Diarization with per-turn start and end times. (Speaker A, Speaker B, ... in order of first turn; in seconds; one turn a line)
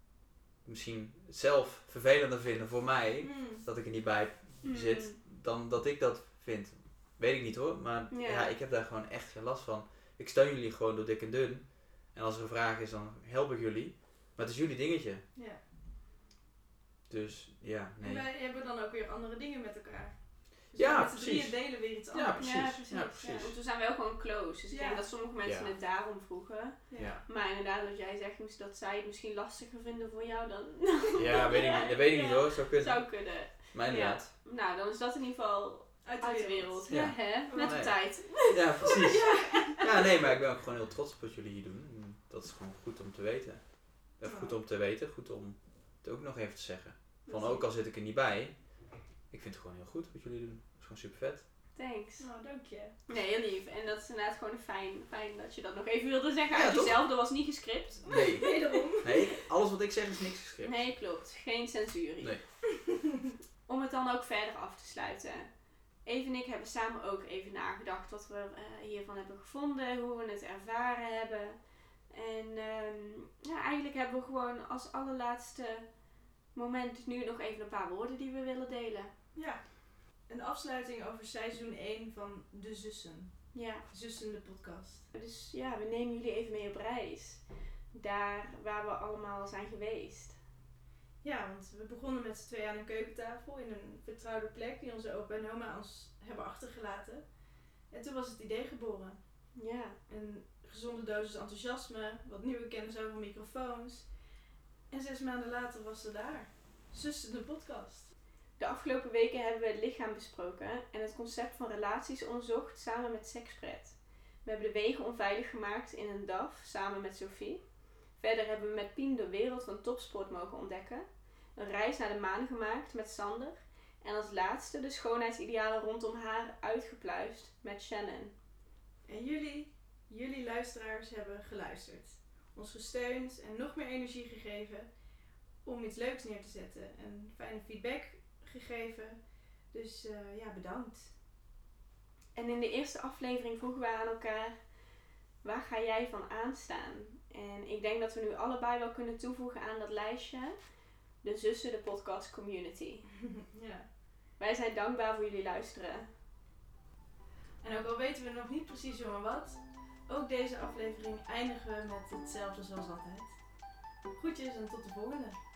Speaker A: 0.7-15.2
Speaker B: 3.2-3.6
Speaker C: 4.6-5.2
Speaker C: 8.1-8.5
Speaker B: 15.3-15.6
Speaker A: 17.1-18.3
Speaker B: 18.0-22.8
Speaker A: 20.8-23.5
Speaker C: 22.4-38.9
Speaker B: 24.7-25.1
Speaker A: 25.4-25.7
Speaker B: 26.9-27.1
Speaker A: 27.0-27.2
Speaker A: 31.2-34.3
Speaker B: 36.0-37.9
Speaker A: 36.9-48.6
Speaker B: 38.8-40.1
Speaker C: 39.6-39.8
Speaker B: 44.2-44.6
Speaker C: 47.3-47.6
Speaker A: 49.3-51.4
Speaker C: 51.8-52.3
Speaker B: 52.2-53.0
Speaker C: 53.1-59.4
Speaker A: 56.5-57.0
Speaker A: 58.1-60.9
Speaker B: 58.1-59.1
Speaker C: 60.6-62.4
Speaker C: 63.7-65.5
Speaker C: 66.0-71.6
Speaker C: 72.1-75.9
Speaker C: 76.5-79.1
Speaker B: 79.3-79.6
Speaker B: 80.3-85.1
Speaker C: 83.5-83.8
Speaker C: 85.1-90.4
Speaker B: 91.2-97.2
Speaker B: 97.9-99.2
Speaker C: 99.5-100.0
Speaker B: 100.1-104.1
Speaker B: 104.9-108.1
Speaker C: 108.6-117.6
Speaker C: 118.2-128.3
Speaker B: 129.1-134.9
Speaker B: 135.7-139.2
Speaker B: 139.7-141.1
Speaker C: 142.3-144.6
Speaker C: 145.4-150.6
Speaker C: 151.2-153.1
Speaker B: 153.3-153.9
Speaker C: 154.4-156.1
Speaker B: 157.6-163.3
Speaker B: 164.2-165.4